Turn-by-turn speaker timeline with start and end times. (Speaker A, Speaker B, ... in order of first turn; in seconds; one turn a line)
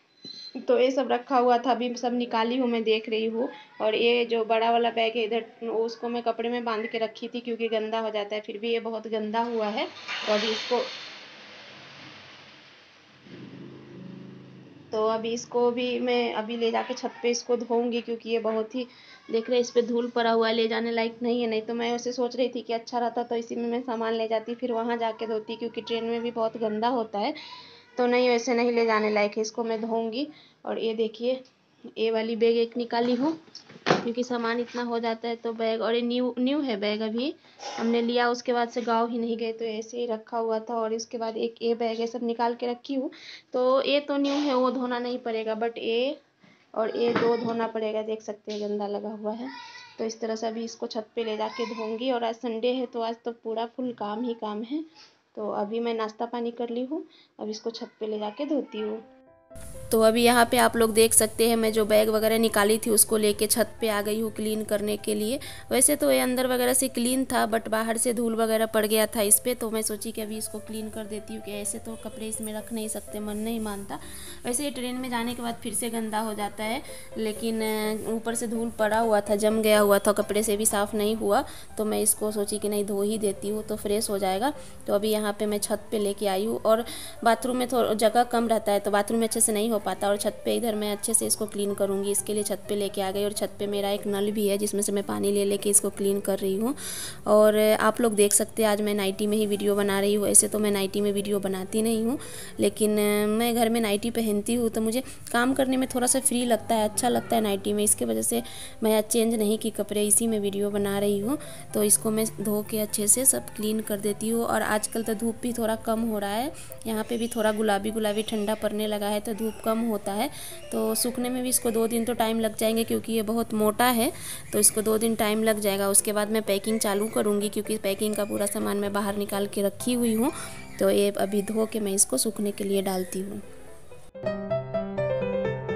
Speaker A: 0.6-10.9
Speaker A: 14.9-27.4
Speaker A: 27.9-31.4
Speaker A: 31.9-46.2
Speaker A: 46.8-59.0
Speaker A: 59.9-133.4